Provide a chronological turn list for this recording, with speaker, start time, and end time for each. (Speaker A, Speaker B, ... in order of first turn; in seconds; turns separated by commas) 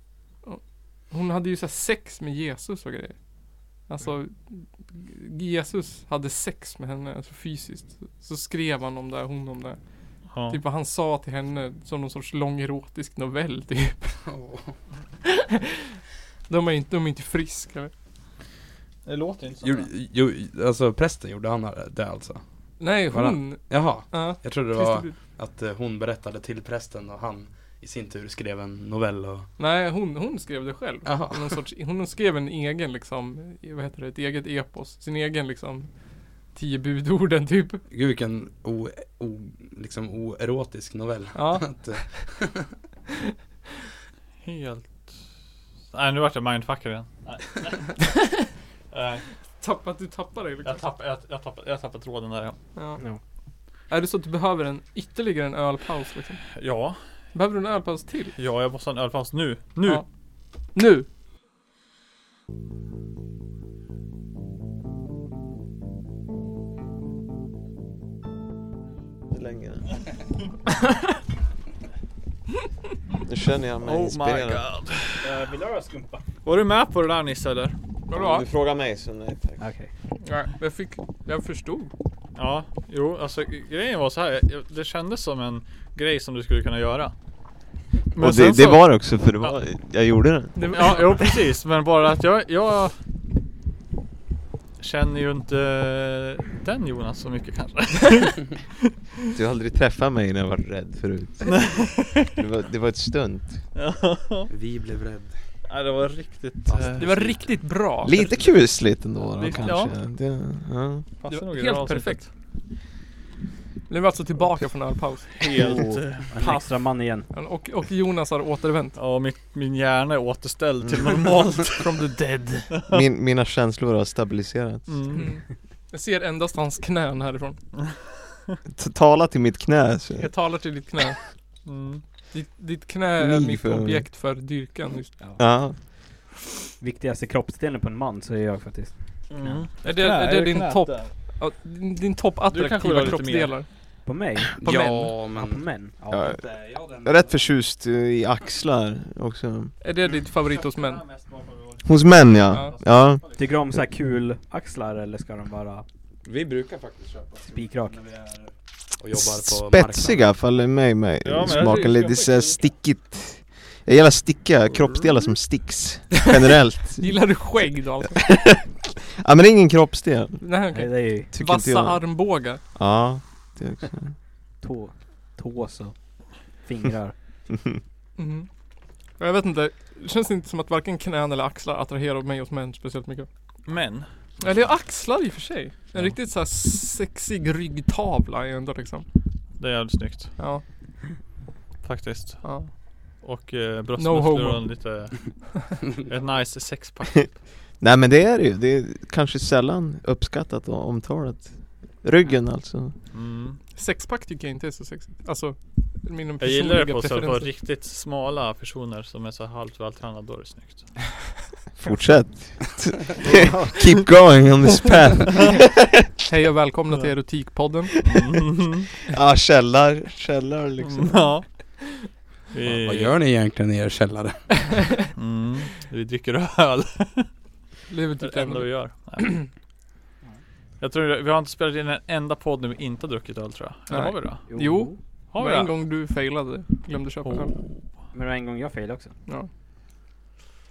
Speaker A: 0.4-14.2, Speaker B: 10.3-10.6, Speaker C: 14.2-14.7, Speaker A: 15.2-15.8, Speaker A: 16.5-17.9, Speaker B: 19.0-19.9, Speaker C: 19.6-22.4, Speaker A: 22.8-25.1, Speaker C: 23.0-29.5, Speaker A: 29.6-37.8, Speaker C: 31.0-31.6, Speaker C: 37.9-42.7, Speaker A: 41.3-42.2, Speaker B: 44.4-45.3, Speaker B: 45.9-48.2, Speaker B: 48.9-49.2, Speaker A: 49.6-50.8, Speaker B: 50.6-52.5, Speaker A: 52.8-53.0, Speaker A: 53.9-56.6, Speaker B: 56.5-57.0, Speaker A: 57.3-58.4, Speaker B: 58.4-60.0, Speaker A: 60.6-61.1, Speaker D: 69.3-70.0, Speaker D: 73.2-74.7, Speaker B: 73.8-75.3, Speaker E: 75.2-76.3, Speaker B: 76.4-77.8, Speaker A: 78.1-78.5, Speaker D: 78.1-79.7, Speaker E: 79.6-79.9, Speaker A: 80.2-81.9, Speaker B: 82.3-87.2, Speaker B: 88.1-89.5, Speaker D: 88.2-90.8, Speaker A: 90.5-91.4, Speaker B: 90.7-93.0, Speaker B: 94.8-98.7, Speaker D: 99.3-103.7, Speaker B: 101.5-102.3, Speaker B: 103.7-104.5, Speaker C: 104.5-105.4, Speaker B: 105.6-107.3, Speaker C: 106.7-107.5, Speaker A: 107.0-108.4, Speaker D: 108.0-111.1, Speaker B: 109.4-110.0, Speaker B: 111.2-112.3, Speaker A: 111.2-112.3, Speaker A: 113.9-115.5, Speaker B: 115.3-116.6, Speaker E: 116.1-117.3, Speaker A: 117.3-119.0, Speaker B: 119.0-122.1, Speaker D: 120.8-121.2, Speaker A: 121.8-122.7, Speaker B: 122.7-123.0, Speaker D: 122.9-125.3, Speaker B: 124.9-125.3, Speaker A: 125.1-127.6, Speaker D: 128.7-130.5, Speaker A: 130.2-131.6, Speaker B: 131.6-132.0, Speaker A: 132.3-135.1, Speaker D: 133.2-134.1, Speaker E: 135.2-135.7, Speaker D: 135.4-135.9, Speaker E: 136.8-139.6, Speaker B: 139.3-141.1, Speaker A: 139.8-144.0, Speaker B: 142.5-143.6, Speaker E: 144.0-144.5, Speaker A: 144.6-145.1, Speaker C: 144.6-147.3, Speaker E: 145.3-146.3, Speaker D: 146.1-149.7, Speaker A: 149.8-151.0, Speaker B: 150.4-153.4, Speaker D: 151.8-153.2, Speaker E: 153.3-155.8, Speaker C: 156.2-160.3, Speaker E: 157.5-158.0, Speaker D: 159.1-170.7, Speaker B: 161.2-162.7, Speaker A: 167.0-168.2, Speaker A: 170.4-172.6, Speaker E: 170.7-171.3, Speaker D: 171.3-172.1, Speaker D: 172.7-174.2, Speaker E: 174.6-177.2, Speaker A: 178.2-178.5, Speaker A: 179.1-183.3, Speaker B: 183.7-184.1, Speaker A: 184.4-189.1, Speaker B: 189.6-190.4, Speaker A: 190.4-190.6, Speaker B: 191.8-197.4, Speaker A: 192.4-192.7, Speaker A: 194.0-195.0, Speaker D: 197.8-203.0, Speaker B: 203.1-203.6, Speaker A: 203.7-207.5, Speaker B: 206.4-211.1, Speaker D: 211.7-216.1, Speaker E: 213.3-213.7, Speaker A: 216.2-217.9, Speaker B: 218.0-218.9, Speaker D: 219.1-221.4, Speaker B: 220.8-221.8, Speaker B: 222.5-223.1, Speaker C: 222.6-224.9, Speaker B: 225.1-227.3, Speaker A: 227.9-228.9, Speaker B: 228.2-229.5, Speaker B: 230.8-234.5, Speaker A: 233.9-237.6, Speaker E: 234.5-235.0, Speaker B: 235.3-235.8, Speaker B: 237.2-237.8, Speaker E: 238.1-239.1